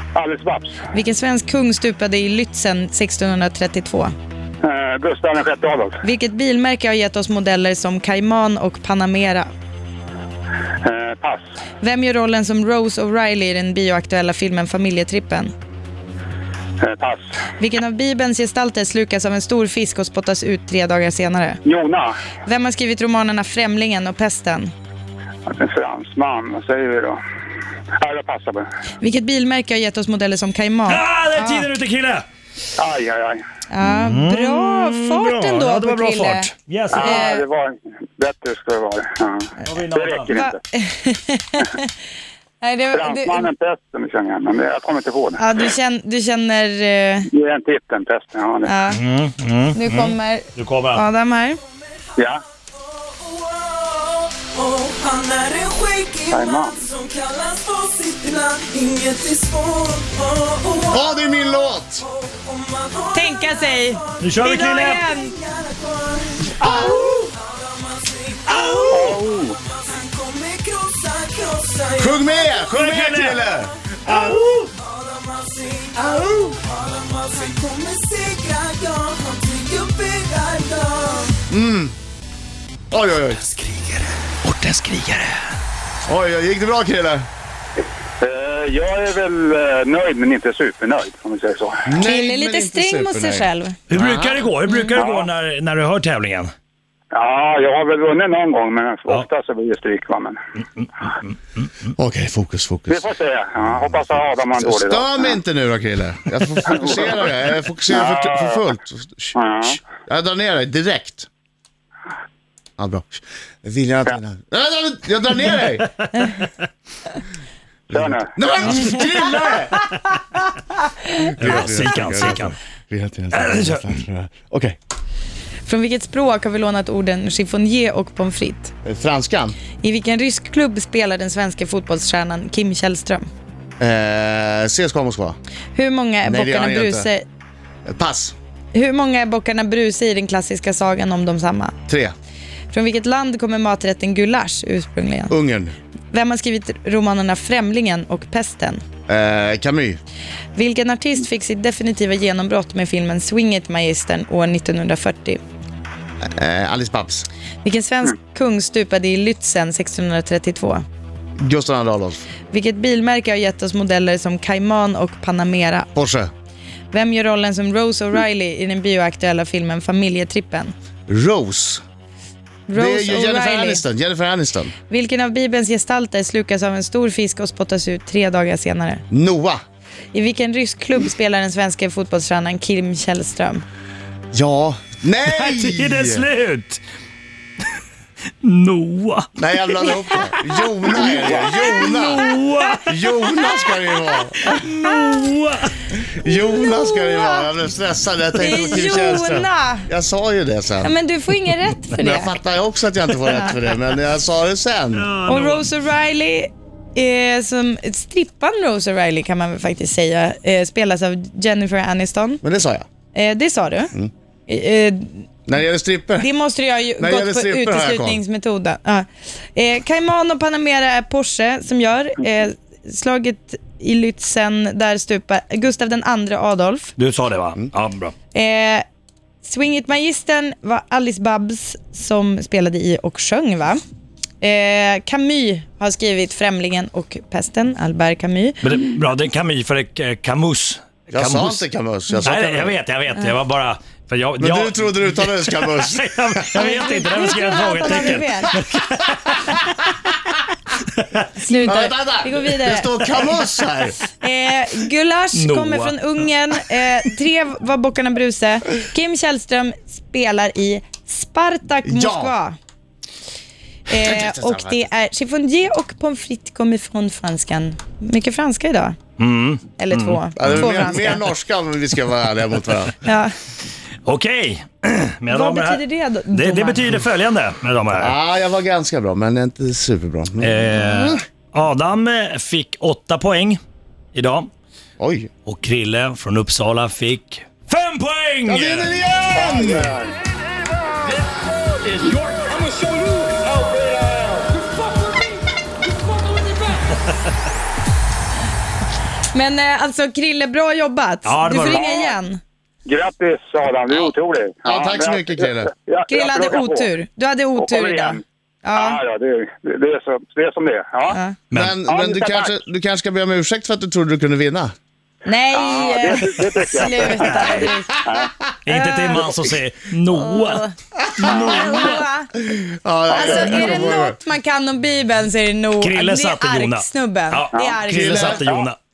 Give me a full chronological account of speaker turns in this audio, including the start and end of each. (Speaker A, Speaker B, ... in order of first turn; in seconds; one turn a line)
Speaker A: 0.1-0.8
Speaker B: 0.9-4.1
Speaker A: 4.6-6.0
Speaker B: 6.0-9.5
Speaker A: 10.8-11.4
Speaker B: 11.8-15.5
Speaker A: 16.8-17.4
Speaker B: 17.6-21.6
Speaker A: 21.6-22.2
Speaker B: 22.5-24.7
Speaker A: 25.5-27.2
Speaker A: 28.0-28.7
Speaker B: 29.0-31.7
Speaker C: 30.9-32.2
Speaker A: 32.8-33.4
Speaker B: 33.7-37.4
Speaker C: 33.8-37.1
Speaker A: 36.9-40.6
Speaker C: 39.6-40.4
Speaker B: 40.3-41.9
Speaker B: 42.6-43.5
Speaker A: 42.9-45.4
Speaker B: 45.4-47.3
Speaker A: 47.3-48.7
Speaker B: 48.6-49.0
Speaker C: 48.9-51.0
Speaker B: 49.8-51.6
Speaker A: 52.2-52.4
Speaker D: 52.7-61.5
Speaker A: 56.3-56.8
Speaker E: 60.9-62.1
Speaker D: 62.1-72.7
Speaker B: 63.1-65.3
Speaker C: 64.2-65.0
Speaker E: 66.6-67.3
Speaker C: 68.5-69.2
Speaker A: 68.9-69.6
Speaker E: 72.0-74.3
Speaker C: 72.7-73.4
Speaker D: 73.5-81.4
Speaker C: 74.1-74.7
Speaker E: 76.0-76.5
Speaker E: 81.5-81.9
Speaker E: 82.9-83.4
Speaker C: 83.5-85.4
Speaker E: 86.1-87.3
Speaker A: 88.2-91.9
Speaker E: 91.9-94.3
Speaker B: 92.0-93.8
Speaker C: 93.9-96.5
Speaker B: 94.7-95.0
Speaker A: 94.9-95.3
Speaker A: 97.1-100.4
Speaker C: 101.6-101.9
Speaker E: 102.0-103.0
Speaker A: 102.9-105.4
Speaker E: 104.6-111.3
Speaker A: 107.9-108.7
Speaker A: 109.4-109.8
Speaker E: 112.8-115.9
Speaker E: 117.9-119.8
Speaker A: 117.9-118.3
Speaker B: 118.8-119.1
Speaker E: 121.4-124.8
Speaker C: 121.4-122.6
Speaker C: 123.3-123.8
Speaker B: 125.7-128.7
Speaker E: 128.8-129.6
Speaker B: 129.8-133.3
Speaker E: 133.8-135.4
Speaker B: 135.8-137.2
Speaker E: 136.2-137.1
Speaker E: 137.9-138.3
Speaker B: 138.7-141.8
Speaker E: 141.9-142.1
Speaker B: 142.7-145.3
Speaker E: 145.3-145.8
Speaker B: 146.1-148.8
Speaker E: 149.1-150.0
Speaker B: 150.6-155.4
Speaker E: 156.3-157.3
Speaker B: 157.6-160.8
Speaker E: 161.4-162.2
Speaker B: 162.5-165.9
Speaker E: 165.9-166.3
Speaker B: 166.9-170.7
Speaker E: 171.1-171.8
Speaker B: 172.7-173.8
Speaker E: 172.8-174.7
Speaker B: 174.9-179.0
Speaker E: 179.1-179.6
Speaker B: 180.1-183.6
Speaker E: 184.3-186.3
Speaker C: 185.3-186.8
Speaker C: 188.4-189.3
Speaker E: 189.4-192.2
Speaker B: 191.0-192.8
Speaker C: 191.4-193.3
Speaker E: 192.9-194.6
Speaker C: 194.4-195.8
Speaker E: 196.0-200.9
Speaker B: 196.3-197.5
Speaker B: 198.4-199.9
Speaker B: 200.8-202.4
Speaker E: 202.0-205.1
Speaker C: 205.0-205.7
Speaker B: 205.3-212.4
Speaker E: 212.4-212.9
Speaker B: 213.1-213.9
Speaker B: 214.5-215.3
Speaker E: 215.5-216.3
Speaker B: 216.2-226.9
Speaker E: 217.0-218.2
Speaker C: 227.0-228.1
Speaker B: 228.3-228.8
Speaker B: 229.4-233.8
Speaker B: 234.4-238.6
Speaker C: 238.6-241.6
Speaker E: 241.1-242.7
Speaker C: 242.2-249.5
Speaker E: 244.4-246.5
Speaker B: 246.6-248.5
Speaker C: 250.9-251.3
Speaker B: 251.4-253.2
Speaker E: 251.6-254.0
Speaker B: 254.1-262.6
Speaker C: 255.3-256.0
Speaker E: 261.9-262.3
Speaker B: 263.9-269.0
Speaker E: 263.9-264.9
Speaker C: 269.2-271.0
Speaker B: 269.8-271.3
Speaker E: 270.4-272.9
Speaker B: 273.0-273.3
Speaker C: 274.1-275.8
Speaker B: 275.3-277.0
Speaker C: 276.3-278.1
Speaker E: 278.0-281.2
Speaker C: 280.4-283.6
Speaker C: 284.1-284.5
Speaker E: 285.0-285.3
Speaker C: 285.4-288.9
Speaker E: 288.5-289.9
Speaker A: 289.3-290.1
Speaker C: 291.9-292.9
Speaker C: 296.6-297.0
Speaker B: 299.3-302.4
Speaker C: 301.2-301.9
Speaker A: 301.7-302.2
Speaker A: 302.9-306.9
Speaker E: 304.6-305.7
Speaker B: 306.1-309.0
Speaker A: 307.6-308.2
Speaker A: 308.7-311.2
Speaker B: 311.1-311.4
Speaker C: 311.5-311.8
Speaker E: 311.5-314.7
Speaker A: 311.9-312.6
Speaker B: 315.3-318.0
Speaker A: 315.5-318.4
Speaker C: 318.6-320.7
Speaker B: 318.7-319.2
Speaker B: 320.1-320.7
Speaker C: 321.2-322.0
Speaker A: 321.2-322.0
Speaker B: 321.2-322.3
Speaker E: 322.4-324.2
Speaker A: 323.1-324.0
Speaker B: 323.1-328.4
Speaker C: 325.8-328.8
Speaker A: 327.5-327.8
Speaker E: 327.9-328.4
Speaker A: 328.3-328.7